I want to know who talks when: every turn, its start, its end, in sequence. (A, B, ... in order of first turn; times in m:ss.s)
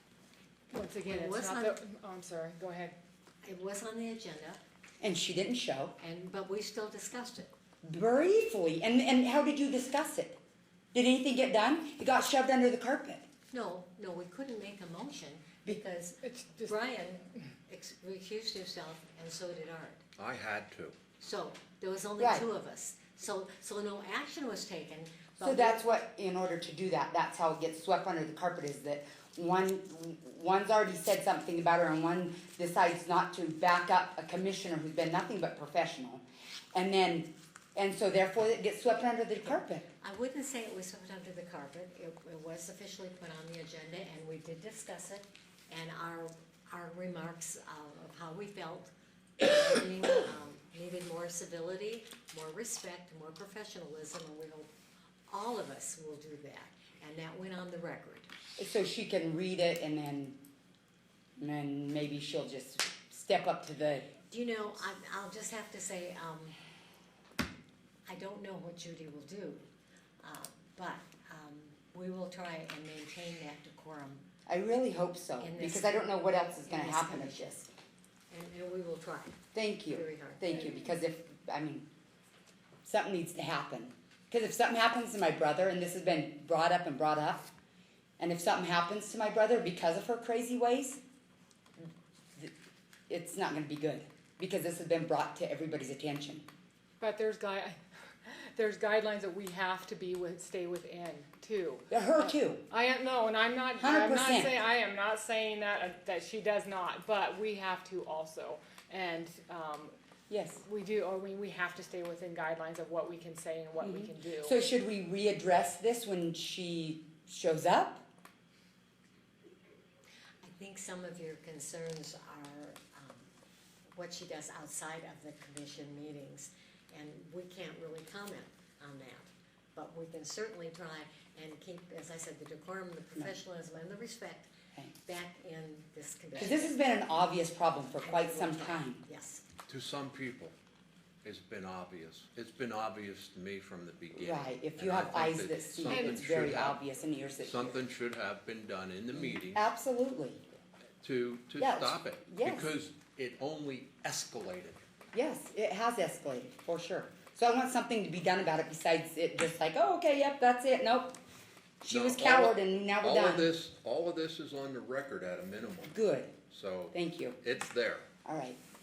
0:00.7-0:03.0 A
0:01.0-0:01.8 B
0:03.4-0:04.6 B
0:05.0-0:06.0 C
0:06.0-0:07.5 B
0:07.8-0:10.4 C
0:10.9-0:13.3 C
0:13.5-0:20.0 B
0:16.2-0:16.8 A
0:20.2-0:21.0 D
0:21.2-0:25.8 B
0:22.2-0:22.4 C
0:25.4-0:39.8 C
0:40.0-0:54.7 B
0:55.3-0:58.3 B
0:58.6-1:00.4 C
1:01.4-1:04.1 C
1:04.3-1:06.6 B
1:08.1-1:09.6 B
1:10.2-1:14.2 B
1:14.5-1:17.7 C
1:15.4-1:17.5 B
1:18.3-1:20.7 B
1:19.5-1:21.9 C
1:22.8-1:27.5 C
1:28.2-1:31.0 C
1:31.8-1:32.5 C
1:33.1-1:36.4 C
1:37.0-1:49.9 A
1:41.9-1:42.7 C
1:43.8-1:44.6 C
1:50.3-1:50.6 C
1:50.6-1:54.6 A
1:53.8-1:58.0 C
2:00.4-2:03.2 B
2:03.9-2:14.5 B
2:15.0-2:16.8 B
2:16.4-2:19.0 C
2:18.0-2:19.4 B
2:19.7-2:20.5 D
2:21.2-2:26.8 D
2:24.2-2:27.8 C
2:27.4-2:29.7 D
2:29.2-2:30.4 C
2:31.0-2:34.8 D
2:31.6-2:32.7 C
2:35.1-2:41.2 C
2:41.8-2:43.5 C
2:41.9-2:45.9 D
2:45.8-2:46.3 C
2:46.5-2:48.0 D
2:46.9-2:47.4 C
2:48.2-2:48.6 C